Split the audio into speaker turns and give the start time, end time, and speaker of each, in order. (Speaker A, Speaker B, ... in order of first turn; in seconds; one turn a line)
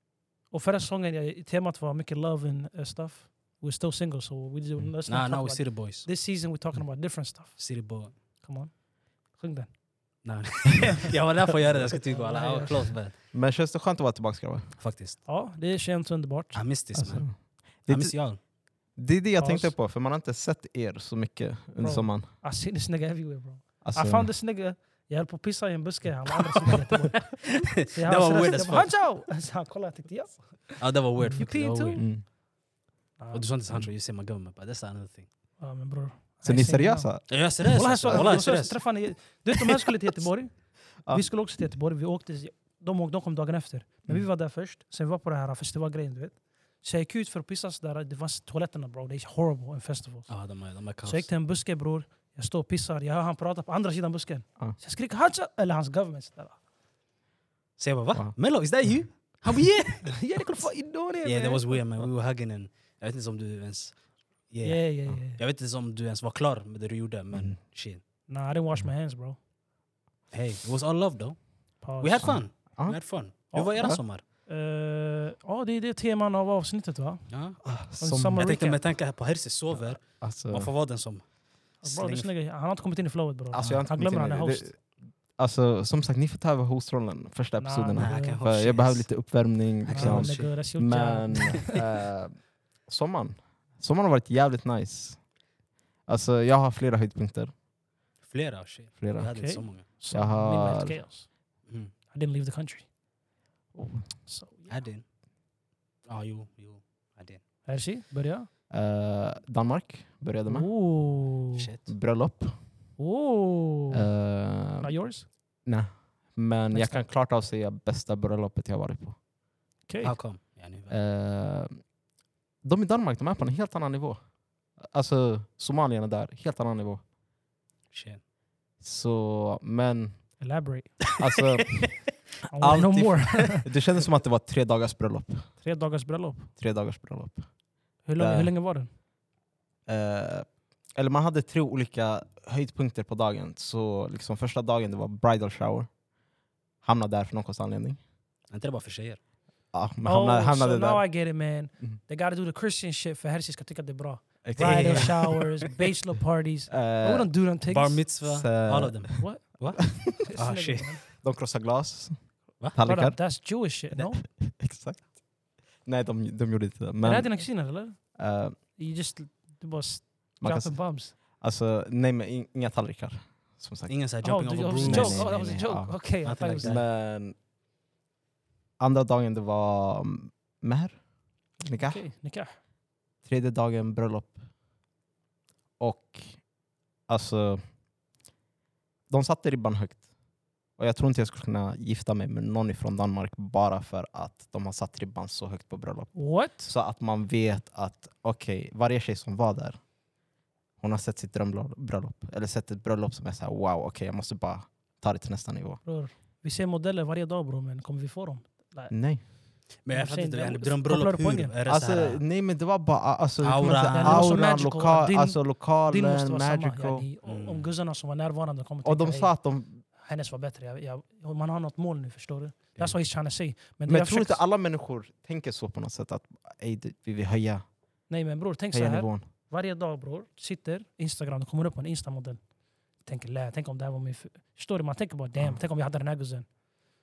Speaker A: 0.5-8.7
Speaker B: 5.1-6.1
Speaker B: 7.6-8.2
Speaker A: 9.3-9.7
Speaker B: 10.2-13.2
Speaker A: 12.0-13.0
Speaker C: 13.3-14.8
Speaker B: 14.8-15.2
Speaker A: 15.2-17.0
Speaker B: 16.5-17.3
Speaker C: 16.9-18.2
Speaker B: 17.8-18.4
Speaker C: 19.0-22.3
Speaker A: 19.4-19.7
Speaker A: 21.8-32.0
Speaker C: 23.8-24.3
Speaker B: 26.3-29.0
Speaker B: 30.8-32.1
Speaker C: 32.0-32.2
Speaker A: 33.2-33.5
Speaker B: 33.3-35.3
Speaker A: 35.6-40.5
Speaker C: 36.4-37.4
Speaker B: 37.3-38.8
Speaker C: 38.0-38.4
Speaker A: 41.1-50.4
Speaker B: 50.3-51.3
Speaker A: 51.0-56.6
Speaker B: 57.8-60.1
Speaker A: 60.0-61.8
Speaker B: 61.2-64.0
Speaker B: 64.5-68.0
Speaker A: 64.6-65.4
Speaker A: 68.3-69.4
Speaker B: 70.3-71.4
Speaker A: 71.8-72.5
Speaker B: 72.0-74.2
Speaker C: 72.2-73.0
Speaker A: 73.5-77.3
Speaker C: 73.5-74.0
Speaker B: 77.3-77.7
Speaker C: 77.6-78.4
Speaker A: 78.0-78.8
Speaker B: 78.4-81.2
Speaker C: 79.8-80.7
Speaker B: 81.8-82.3
Speaker A: 81.8-84.7
Speaker C: 83.5-95.2
Speaker A: 87.6-88.4
Speaker B: 88.0-89.1
Speaker B: 89.8-90.5
Speaker A: 89.9-91.8
Speaker C: 96.1-97.5
Speaker B: 98.3-99.8
Speaker C: 99.0-99.3
Speaker A: 99.2-101.3
Speaker C: 100.1-101.0
Speaker B: 101.7-101.9
Speaker A: 102.1-102.9
Speaker C: 103.8-104.1
Speaker A: 104.3-104.9
Speaker B: 104.7-105.0
Speaker B: 106.1-107.4
Speaker A: 107.7-108.5
Speaker C: 108.7-110.7
Speaker A: 110.5-111.7
Speaker B: 111.5-111.9
Speaker C: 111.9-112.5
Speaker A: 113.0-114.1
Speaker C: 113.9-114.9
Speaker A: 114.8-115.3
Speaker C: 115.7-119.2
Speaker A: 116.7-117.0
Speaker A: 119.9-120.2
Speaker B: 120.0-121.0
Speaker C: 120.9-121.8
Speaker C: 122.6-124.2
Speaker C: 124.8-127.0
Speaker B: 127.9-128.2
Speaker C: 128.8-130.2
Speaker A: 130.4-131.2
Speaker C: 131.2-132.0
Speaker B: 131.7-132.1
Speaker A: 132.5-133.7
Speaker C: 132.6-135.5
Speaker A: 135.6-136.5
Speaker C: 136.6-137.5
Speaker A: 138.1-138.9
Speaker C: 138.2-138.5
Speaker C: 139.9-145.9
Speaker C: 146.8-148.0
Speaker B: 148.5-149.2
Speaker C: 149.7-151.1
Speaker A: 150.1-158.1
Speaker C: 154.4-155.7
Speaker B: 154.6-155.2
Speaker C: 156.7-157.3
Speaker B: 157.7-161.0
Speaker C: 158.2-159.2
Speaker A: 159.2-161.0
Speaker C: 161.2-162.2
Speaker C: 162.7-163.2
Speaker A: 162.8-164.2
Speaker C: 164.2-165.1
Speaker C: 165.8-167.4
Speaker A: 167.0-168.0
Speaker C: 168.2-168.6
Speaker A: 168.8-171.1
Speaker C: 170.4-170.8
Speaker C: 171.3-173.9
Speaker B: 173.9-175.7
Speaker A: 174.2-176.8
Speaker C: 174.8-176.0
Speaker B: 176.2-176.8
Speaker C: 176.6-177.4
Speaker C: 178.8-181.0
Speaker C: 181.6-182.0
Speaker A: 181.8-182.5
Speaker C: 183.2-184.4
Speaker C: 185.8-186.4
Speaker C: 187.1-187.6
Speaker C: 189.1-190.0
Speaker C: 190.8-199.8
Speaker A: 196.2-196.7
Speaker C: 200.8-205.8
Speaker A: 205.8-208.9
Speaker C: 208.9-209.2
Speaker B: 209.8-212.2
Speaker A: 209.9-211.5
Speaker C: 211.7-217.1
Speaker B: 213.4-214.3
Speaker A: 213.7-219.3
Speaker B: 217.2-217.7
Speaker C: 218.8-219.8
Speaker A: 220.0-224.4
Speaker C: 223.9-227.7
Speaker A: 228.1-232.4
Speaker C: 228.7-229.3
Speaker A: 233.0-236.5
Speaker C: 235.4-235.6